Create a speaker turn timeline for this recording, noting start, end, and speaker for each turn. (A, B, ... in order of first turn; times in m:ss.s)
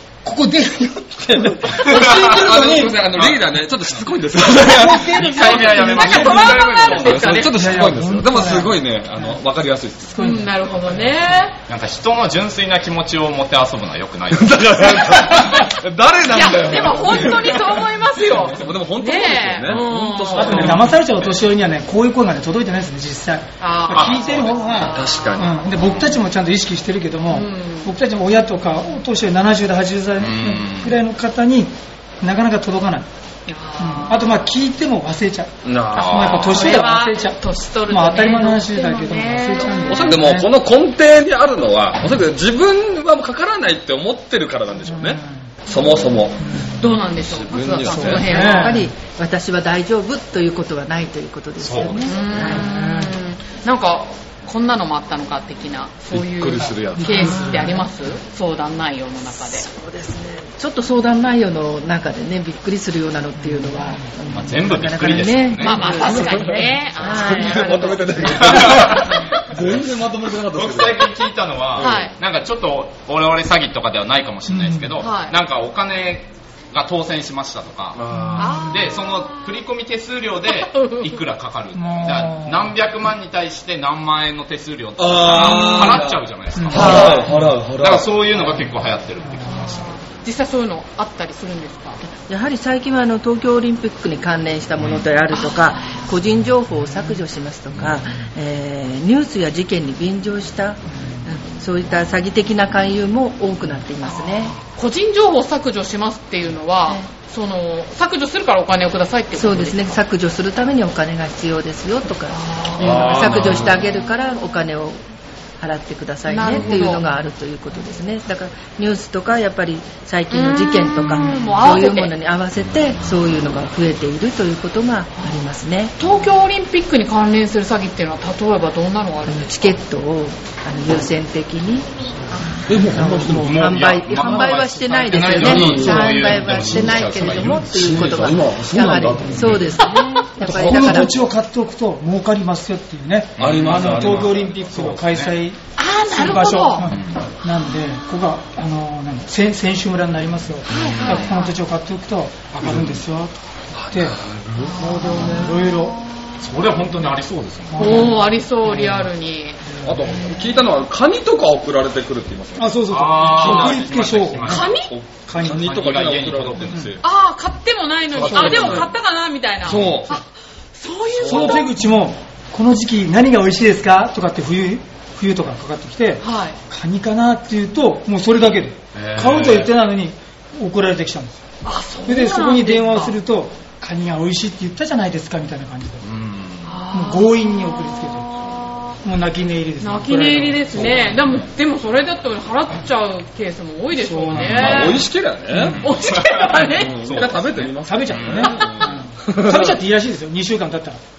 0:00.2-0:03.1 A
0:01.8-0:02.4 B
0:02.0-0:10.2 C
0:03.2-0:07.5 B
0:04.5-0:06.5 A
0:05.9-0:07.5 D
0:07.4-0:08.8 A
0:10.1-0:10.6 A
0:10.2-0:11.6 D
0:11.7-0:15.6 B
0:14.3-0:21.3 C
0:16.3-0:20.8 D
0:20.4-0:33.1 A
0:23.6-0:25.3 D
0:24.0-0:25.9 C
0:27.3-0:27.9 D
0:30.2-0:31.0 B
0:33.5-0:34.4 D
0:33.8-0:40.5 A
0:35.6-0:36.8 C
0:36.0-0:36.6 B
0:36.1-0:40.2 D
0:39.9-0:48.6 C
0:44.9-0:45.5 A
0:46.4-0:46.8 A
0:46.8-0:48.9 D
0:47.9-0:48.9 A
0:48.4-0:53.1 E
0:51.6-0:52.0 B
0:52.1-0:59.7 D
0:56.1-0:57.3 C
0:57.1-0:57.8 A
0:57.2-0:57.8 E
0:59.5-1:09.0 E
1:03.4-1:04.1 A
1:04.3-1:06.1 B
1:05.6-1:08.2 D
1:07.0-1:11.1 C
1:08.3-1:09.9 B
1:10.4-1:18.0 B
1:11.8-1:12.2 D
1:14.5-1:15.0 A
1:15.0-1:15.4 D
1:17.9-1:18.7 C
1:18.2-1:18.6 A
1:18.4-1:19.6 D
1:18.6-1:29.8 B
1:20.5-1:21.2 D
1:21.8-1:22.7 A
1:25.0-1:28.2 C
1:25.3-1:26.0 D
1:25.6-1:26.0 A
1:26.6-1:27.4 A
1:26.8-1:27.2 D
1:29.3-1:29.6 A
1:29.4-1:32.0 D
1:32.0-1:44.6 E
1:35.3-1:36.0 D
1:44.1-1:50.0 D
1:49.3-1:55.0 E
1:52.3-1:53.8 D
1:52.8-1:53.8 B
1:55.6-2:05.9 E
1:56.3-1:57.1 D
2:00.3-2:02.2 D
2:06.0-2:09.7 D
2:09.2-2:21.2 E
2:12.7-2:13.7 C
2:13.3-2:18.4 B
2:15.2-2:19.9 C
2:19.8-2:20.2 D
2:20.4-2:34.2 A
2:20.4-2:21.3 C
2:23.4-2:24.4 B
2:23.4-2:25.3 C
2:25.8-2:27.0 D
2:26.9-2:27.3 B
2:30.7-2:31.5 D
2:30.7-2:31.2 B
2:32.5-2:32.9 B
2:32.7-2:33.0 C
2:33.8-2:34.7 C
2:34.6-2:36.4 D
2:34.8-2:36.0 A
2:36.4-2:38.1 B
2:37.7-2:39.1 A
2:37.8-2:39.7 D
2:39.7-2:40.2 A
2:39.8-2:44.0 C
2:42.6-2:45.7 A
2:42.9-2:44.7 B
2:44.4-2:44.9 D
2:44.6-2:47.0 C
2:45.3-2:46.9 B
2:47.0-2:51.7 D
2:48.2-2:48.9 C
2:48.2-2:48.8 B
2:48.3-2:48.9 A
2:49.6-2:50.2 C
2:51.2-2:51.7 C
2:51.2-3:01.4 A
2:56.2-2:56.6 D
2:59.0-2:59.7 B
3:01.6-3:03.2 D
3:02.1-3:06.0 A
3:06.0-3:06.8 B
3:06.6-3:09.0 D
3:06.9-3:08.4 A
3:09.0-3:11.0 A
3:09.8-3:15.1 D
3:13.9-3:15.0 A
3:14.3-3:15.8 C
3:14.4-3:14.9 B
3:15.5-3:18.6 B
3:15.6-3:15.8 A
3:15.8-3:17.2 D
3:16.6-3:19.8 C
3:17.7-3:21.0 A
3:18.6-3:18.9 D